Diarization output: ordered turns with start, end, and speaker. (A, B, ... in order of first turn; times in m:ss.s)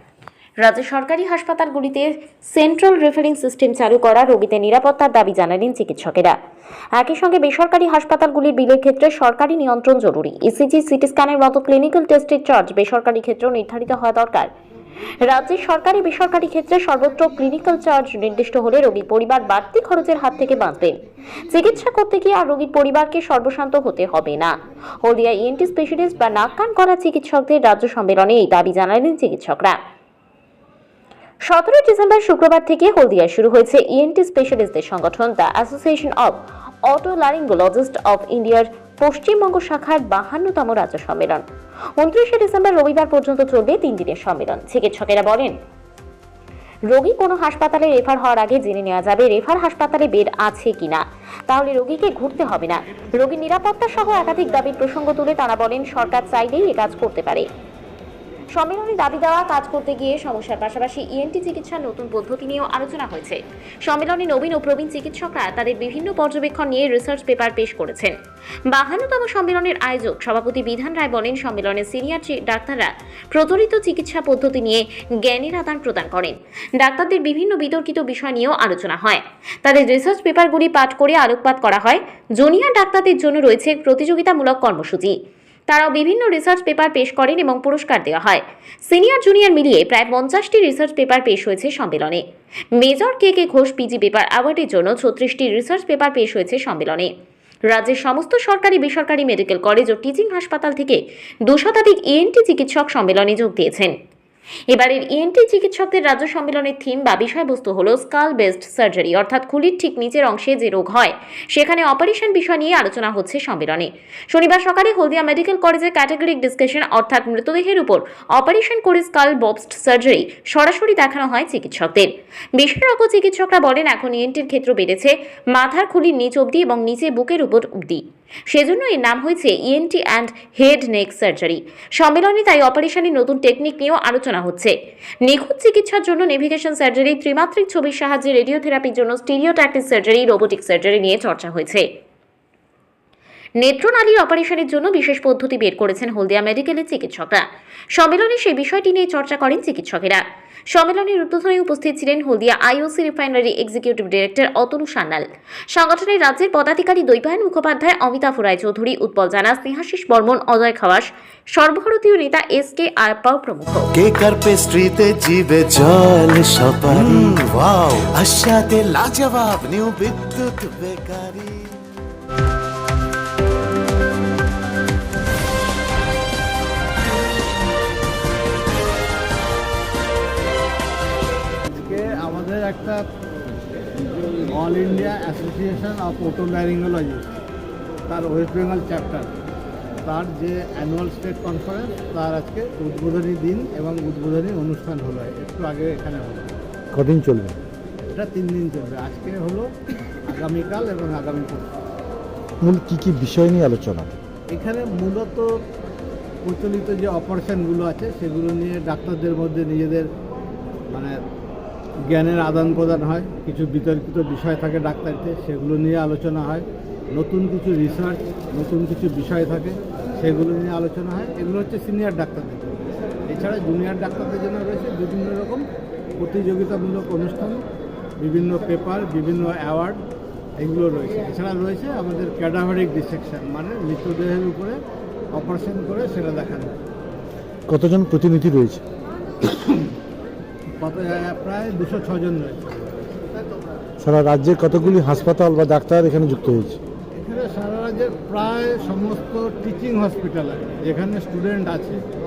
0:00.6-0:06.4 A
0:06.9-0:14.5 A
0:15.2-0:29.8 A
0:31.5-0:41.4 A
0:42.0-0:45.6 A
0:46.9-0:57.5 A
0:58.6-1:08.2 A
1:08.7-1:25.2 A
1:25.7-1:32.2 A
1:32.8-1:37.1 A
1:37.7-1:43.9 A
1:44.7-2:21.9 A
2:23.6-2:43.9 A
2:44.0-2:51.8 B
3:01.6-3:03.0 C
3:04.4-3:07.3 C
3:08.1-3:09.3 C
3:10.0-3:16.6 C
3:16.9-3:17.6 D
3:18.1-3:19.7 C
3:20.3-3:21.7 C
3:22.6-3:24.2 D
3:24.5-3:25.5 C
3:26.4-3:30.1 C
3:30.9-3:31.2 C
3:32.1-3:45.7 C
3:46.2-3:47.6 C
3:48.2-3:50.0 C
3:50.6-3:54.8 C
3:55.3-3:56.8 C
3:57.7-3:58.8 D
4:00.8-4:03.4 C
4:04.0-4:06.8 D
4:07.1-4:12.0 C